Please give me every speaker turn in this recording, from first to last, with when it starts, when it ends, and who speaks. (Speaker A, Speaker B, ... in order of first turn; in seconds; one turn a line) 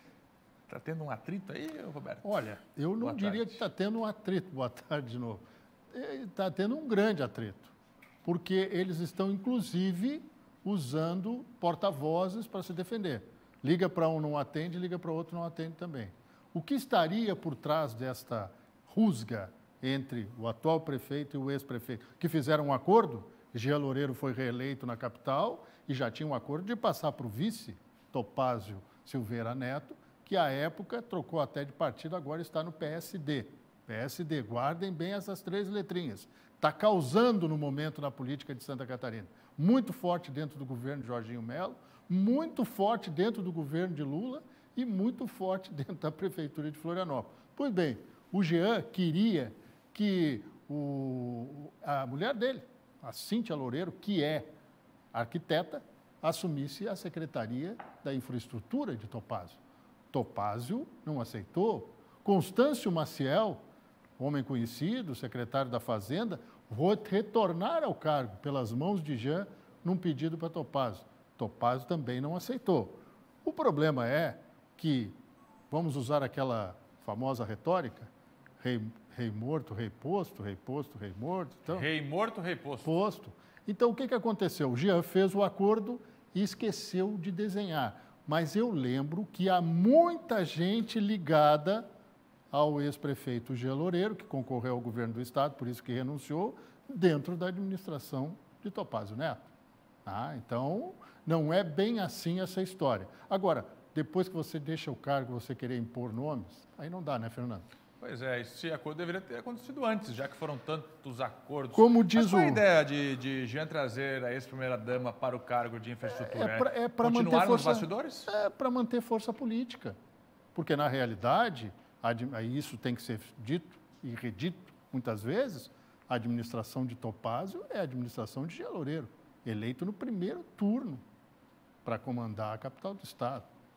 Speaker A: 0.7-2.5
Speaker B: 2.2-7.7
Speaker A: 3.0-3.6
Speaker B: 8.2-54.5
Speaker B: 55.1-59.6
Speaker B: 60.1-63.6
Speaker B: 64.2-75.2
Speaker B: 75.7-81.9
Speaker A: 81.7-82.9
Speaker B: 82.8-91.8
Speaker B: 92.5-99.5
Speaker B: 100.0-107.7
Speaker A: 108.0-118.3
Speaker B: 111.7-112.6
Speaker B: 116.1-120.0
Speaker B: 120.5-131.0
Speaker B: 131.8-133.5